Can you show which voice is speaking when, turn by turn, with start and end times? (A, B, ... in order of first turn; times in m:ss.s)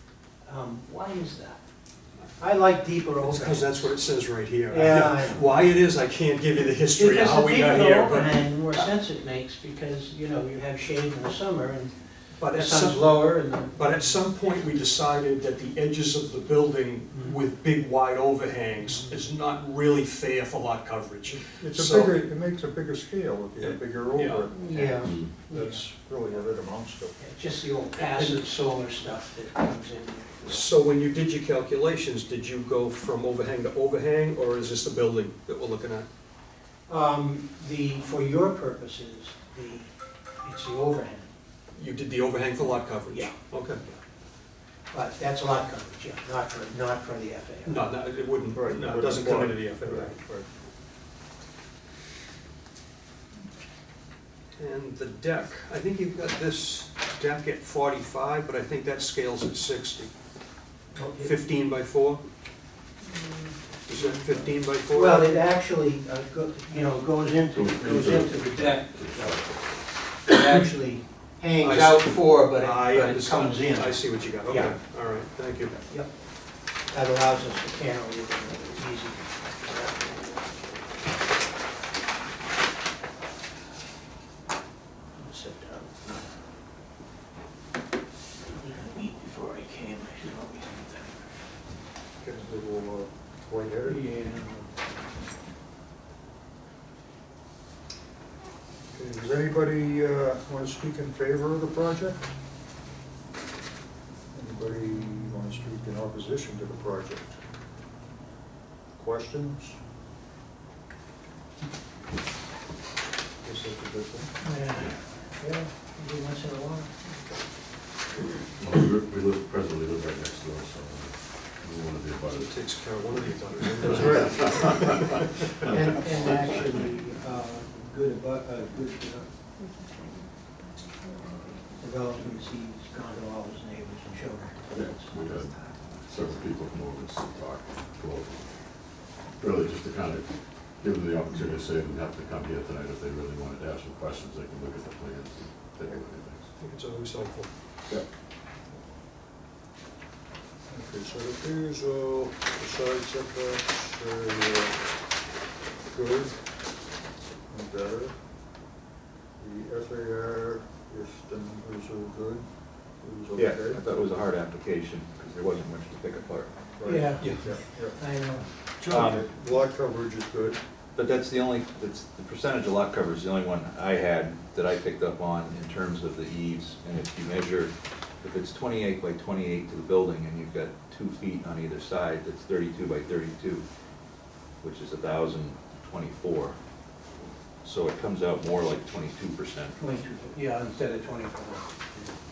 0:00.4-0:01.6 A
0:02.4-0:03.9 A
0:03.2-0:08.9 B
0:04.7-0:05.5 A
0:07.0-0:14.2 A
0:12.4-0:22.2 B
0:17.1-0:17.4 A
0:18.9-0:19.2 A
0:21.3-0:27.2 C
0:23.6-0:24.5 B
0:24.5-0:25.9 A
0:27.2-0:30.7 A
0:28.0-0:28.4 B
0:30.4-0:36.0 B
0:36.9-0:41.3 A
0:41.7-0:43.8 B
0:43.1-0:43.3 A
0:44.9-0:47.9 A
0:47.6-0:50.2 B
0:48.4-0:50.5 C
0:54.6-1:00.1 B
1:00.9-1:01.4 A
1:01.2-1:02.2 B
1:03.0-1:04.2 A
1:03.8-1:05.4 B
1:04.8-1:14.8 A
1:07.5-1:09.8 D
1:11.6-1:15.8 B
1:15.8-1:16.2 A
1:16.8-1:20.4 A
1:25.1-1:26.2 A
1:28.5-1:31.3 A
1:32.2-1:34.0 C
1:33.8-1:34.7 A
1:38.9-1:42.3 C
1:44.3-1:47.4 C
1:49.0-1:49.8 C
1:53.4-1:54.3 C
1:54.4-1:56.9 A
1:58.6-2:06.5 D
2:02.3-2:05.2 B
2:05.7-2:09.3 A
2:11.8-2:15.6 A
2:14.7-2:18.6 D
2:19.4-2:26.5 D
2:26.6-2:27.5 B
2:30.7-2:34.8 C
2:35.9-2:36.4 C
2:37.5-2:38.1 C
2:39.4-2:43.8 C
2:43.3-2:46.6 E
2:46.8-2:48.0 C
2:46.8-2:48.4 A
2:47.2-2:47.4 B
2:48.8-2:49.1 B
2:48.9-2:49.3 E
2:49.0-2:50.6 C
2:50.9-3:03.6 E
3:04.6-3:06.6 E
3:07.6-3:09.8 E
3:09.8-3:11.7 A